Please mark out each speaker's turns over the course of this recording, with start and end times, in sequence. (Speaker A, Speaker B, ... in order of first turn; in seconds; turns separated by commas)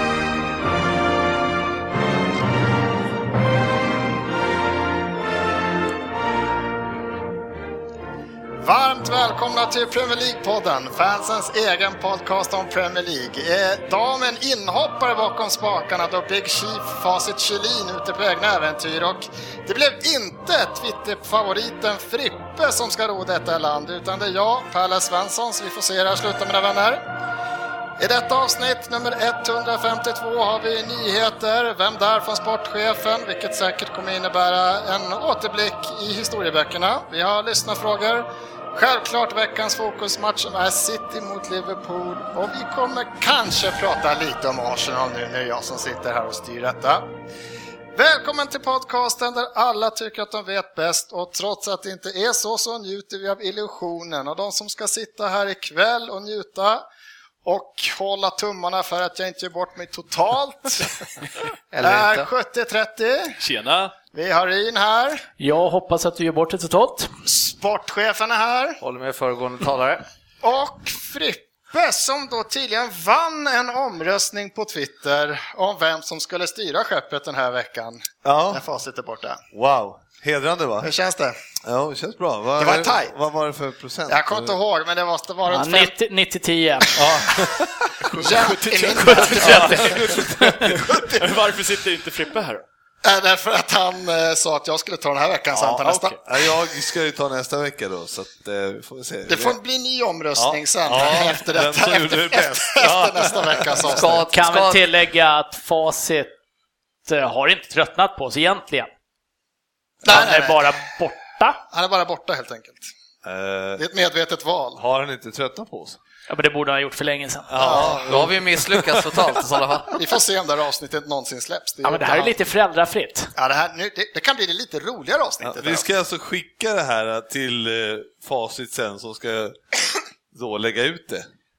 Speaker A: 8.6-27.0, Speaker A: 28.0-47.0, Speaker A: 47.9-56.8, Speaker A: 57.4-61.0, Speaker B: 61.7-62.3, Speaker A: 61.8-63.4, Speaker C: 63.4-63.9, Speaker A: 64.1-65.2, Speaker D: 65.4-67.1, Speaker A: 67.2-68.8, Speaker B: 68.8-70.0, Speaker A: 70.4-79.4, Speaker E: 78.2-78.6, Speaker E: 79.5-80.9, Speaker A: 80.8-81.4, Speaker E: 81.6-84.5, Speaker A: 82.6-83.1, Speaker A: 84.1-85.9, Speaker D: 85.5-87.0, Speaker E: 86.9-87.9, Speaker A: 88.0-90.2, Speaker D: 88.2-90.2, Speaker C: 88.2-92.6, Speaker E: 89.5-91.2, Speaker A: 93.0-96.2, Speaker C: 95.6-96.2, Speaker E: 96.2-99.6, Speaker A: 99.3-104.3, Speaker E: 100.3-104.1, Speaker B: 103.9-104.8, Speaker D: 104.3-106.3, Speaker D: 107.0-108.9, Speaker A: 110.0-110.7, Speaker D: 110.0-111.6, Speaker A: 111.7-112.8, Speaker E: 113.2-113.8, Speaker A: 113.8-114.8, Speaker E: 114.8-116.0, Speaker D: 116.3-117.6, Speaker E: 117.5-119.5, Speaker A: 117.6-118.1, Speaker B: 118.0-120.0, Speaker A: 120.0-122.3, Speaker D: 121.8-123.3, Speaker A: 123.3-125.8, Speaker E: 125.4-129.6, Speaker E: 130.3-131.3